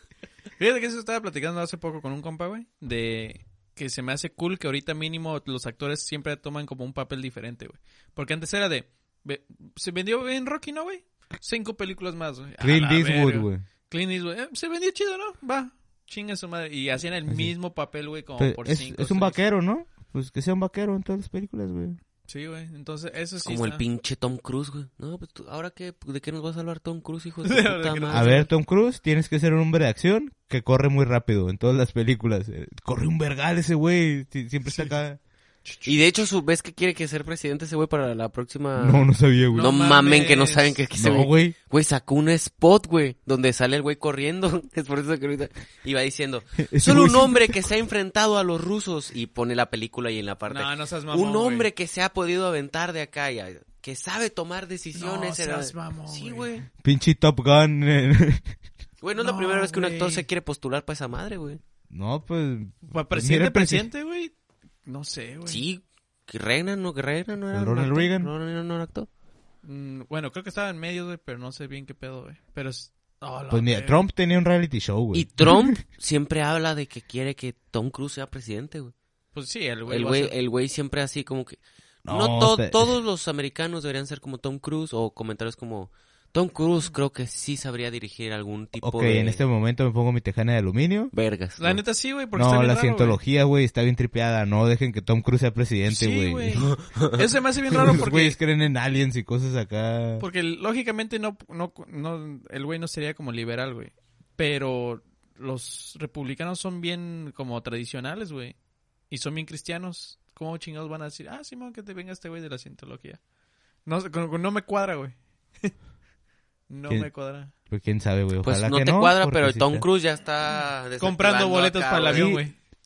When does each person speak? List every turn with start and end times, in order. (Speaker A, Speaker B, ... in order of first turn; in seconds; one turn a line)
Speaker A: 0.6-19.4
Speaker B: 12.6-13.6
Speaker B: 17.3-17.5
Speaker B: 18.4-22.0
Speaker A: 22.3-23.8
Speaker C: 23.4-28.4
Speaker A: 27.4-28.5
Speaker B: 28.1-35.2
Speaker A: 35.6-36.0
Speaker C: 35.8-56.7
Speaker B: 38.8-39.7
Speaker A: 39.5-40.8
Speaker B: 41.0-41.5
Speaker B: 46.6-47.7
Speaker A: 50.5-51.7
Speaker A: 54.9-56.5
Speaker B: 56.8-58.5
Speaker C: 59.0-61.6
Speaker A: 59.2-60.2
Speaker B: 61.9-63.9
Speaker A: 62.9-64.3
Speaker A: 64.8-65.6
Speaker C: 65.5-69.1
Speaker B: 67.5-68.3
Speaker A: 69.6-74.0
Speaker B: 73.5-75.7
Speaker C: 75.1-78.9
Speaker A: 79.3-80.3
Speaker C: 79.9-89.4
Speaker B: 82.0-83.0
Speaker B: 88.8-91.1
Speaker C: 91.1-91.8
Speaker A: 91.6-93.2
Speaker B: 92.3-96.6
Speaker A: 95.9-98.4
Speaker C: 96.6-97.2
Speaker B: 97.7-100.2
Speaker A: 100.2-108.5
Speaker A: 109.1-113.2
Speaker A: 113.8-115.7
Speaker A: 116.7-117.5
Speaker B: 117.7-119.8
Speaker C: 118.4-122.4
Speaker A: 121.0-122.5
Speaker B: 122.1-122.4